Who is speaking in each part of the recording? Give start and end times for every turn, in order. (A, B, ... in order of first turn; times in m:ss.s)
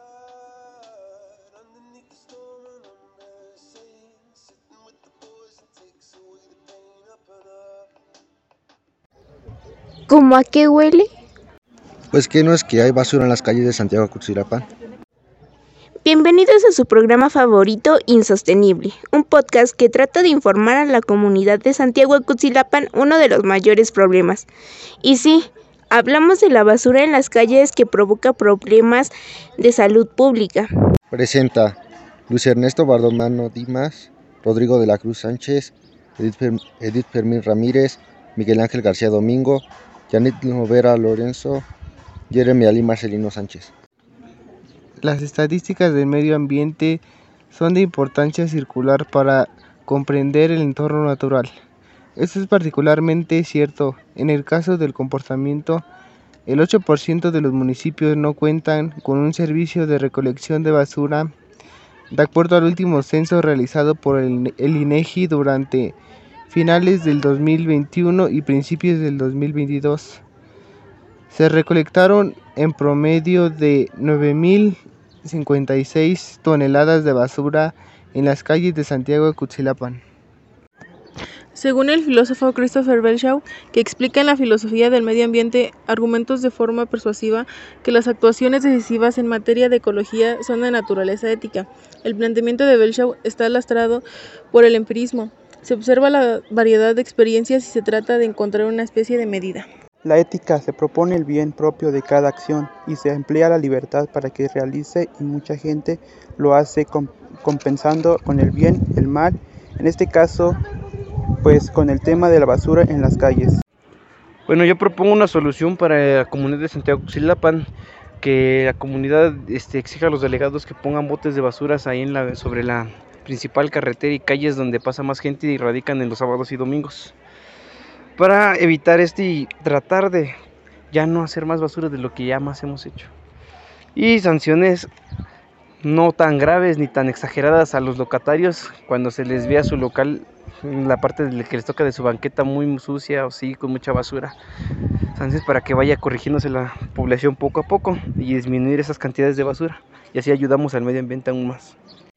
0:01.9-0:04.2 A
0:04.8-0:07.6 A
0:10.1-0:11.0 B
0:12.1-0:14.7 C
0:16.0-0:24.4 B
0:25.0-0:25.4 B
0:25.9-0:29.1 B
0:29.6-0:30.7 B
0:31.1-0:31.8 C
0:32.3-0:41.7 C
0:42.3-0:43.7 C
0:45.0-0:51.5 D
0:52.2-0:55.8 D
0:56.4-1:01.3 D
1:02.1-1:06.0 D
1:06.5-1:10.2 D
1:11.3-1:20.0 D
1:21.6-1:39.7 E
1:40.0-1:50.6 F
1:51.4-1:53.6 F
1:54.5-1:57.6 G
1:58.2-2:07.1 G
2:08.2-2:10.3 G
2:10.9-2:13.1 G
2:14.0-2:14.9 G
2:15.8-2:24.4 G
2:25.2-2:31.8 G